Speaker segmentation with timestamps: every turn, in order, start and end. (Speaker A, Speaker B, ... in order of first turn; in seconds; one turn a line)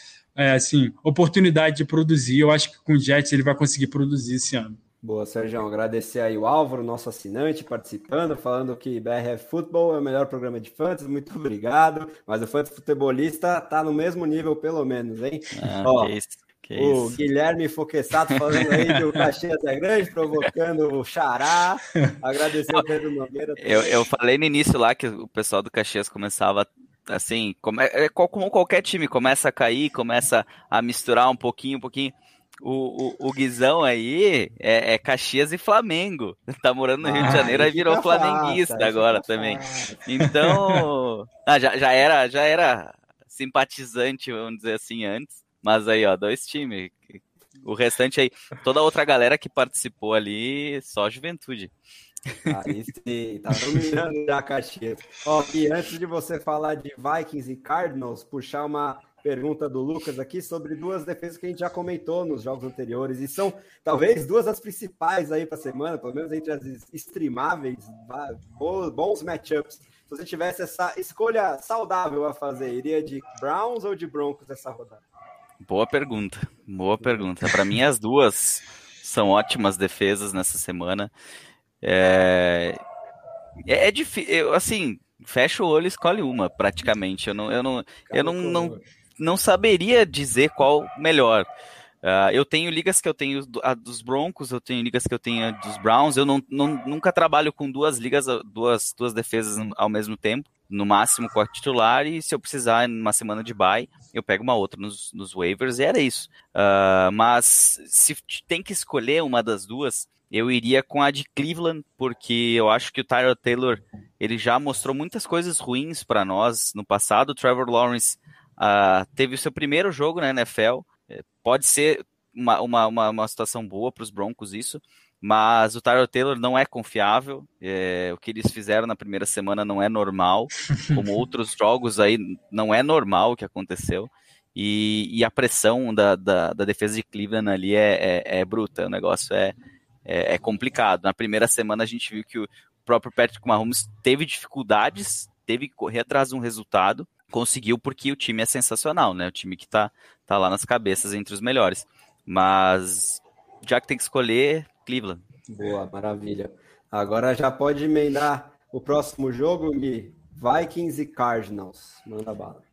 Speaker A: 0.4-4.8
Speaker B: 5.0-16.1
Speaker C: 15.6-17.2
Speaker B: 16.8-24.0
Speaker C: 23.6-51.7
Speaker B: 37.0-40.1
Speaker A: 37.2-37.6
Speaker A: 40.4-40.8
Speaker B: 52.5-75.0
Speaker C: 75.6-81.1
Speaker B: 77.0-77.3
Speaker C: 81.8-82.8
Speaker C: 83.7-91.5
Speaker B: 88.1-88.8
Speaker C: 92.0-155.2
Speaker B: 155.5-162.6